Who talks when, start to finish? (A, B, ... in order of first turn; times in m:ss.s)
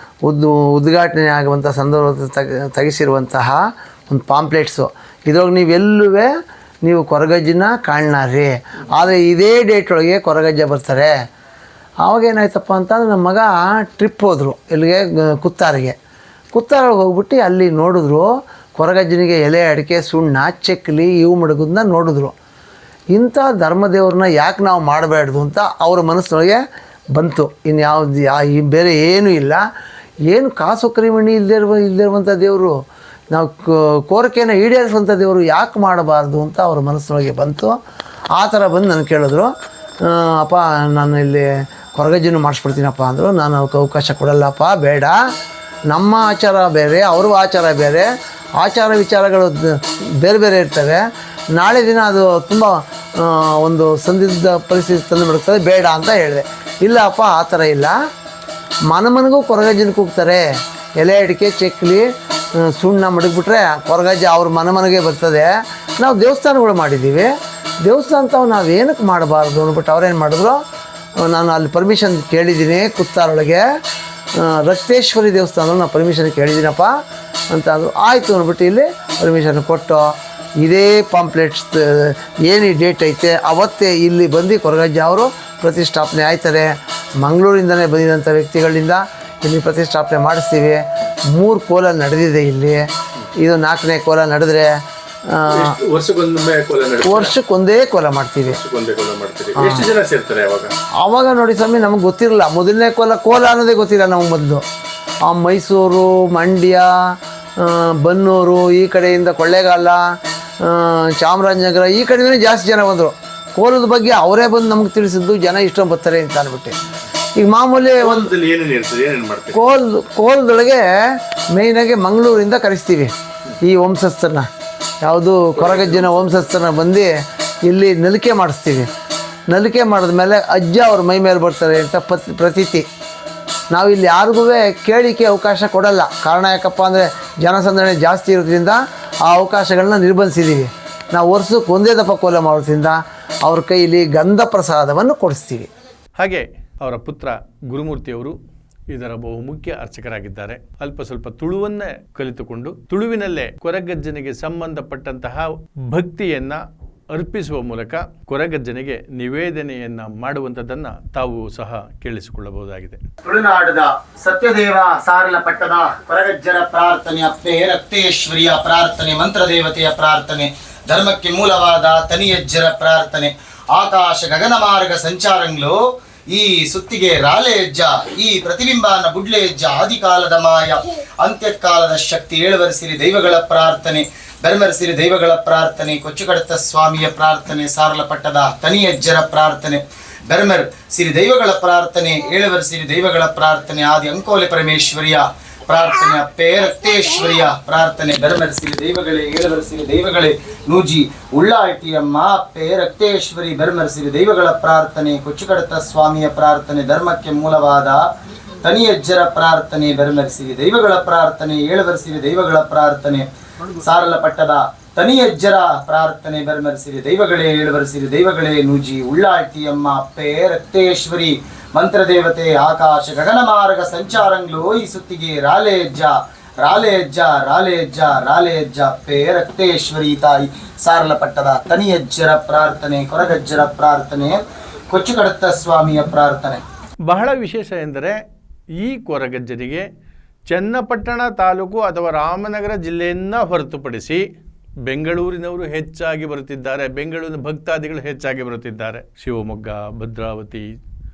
0:00.2-0:06.3 A
0:06.8-0:11.1 A
0:12.0-0:15.9 A
0:16.5-0:22.3 A
0:23.1-0:26.6 A
0:27.1-0:29.6 A
0:30.3-0:32.7 A
0:33.3-0:37.8 A
0:38.3-0:45.2 A
0:45.9-0:48.1 A
0:48.6-0:51.0 A
0:51.5-0:58.0 A
0:58.9-1:00.4 A
1:01.0-1:07.3 A
1:07.8-1:10.6 A
1:11.2-1:13.6 A
1:14.3-1:16.9 A
1:17.5-1:30.8 A
1:31.3-1:32.9 A
1:33.4-1:34.7 A
1:35.3-1:35.7 A
1:35.5-1:37.3 B
1:37.0-1:38.6 A
1:38.5-1:40.7 B
1:39.6-1:39.8 A
1:41.0-1:44.6 A
1:45.2-1:56.7 A
1:57.4-1:58.3 A
1:58.0-1:59.6 B
1:59.5-2:04.5 A
2:05.0-2:07.1 A
2:05.5-2:06.3 B
2:07.6-2:08.9 A
2:09.5-2:12.8 A
2:13.7-2:25.7 A
2:26.2-2:28.4 B
2:28.9-2:36.6 B
2:37.1-2:43.0 B
2:43.2-3:28.1 C
3:28.6-3:33.3 C
3:33.8-3:56.6 C
3:57.0-3:58.2 B
3:58.8-3:59.8 B
4:00.5-4:04.2 B
4:04.8-4:10.7 B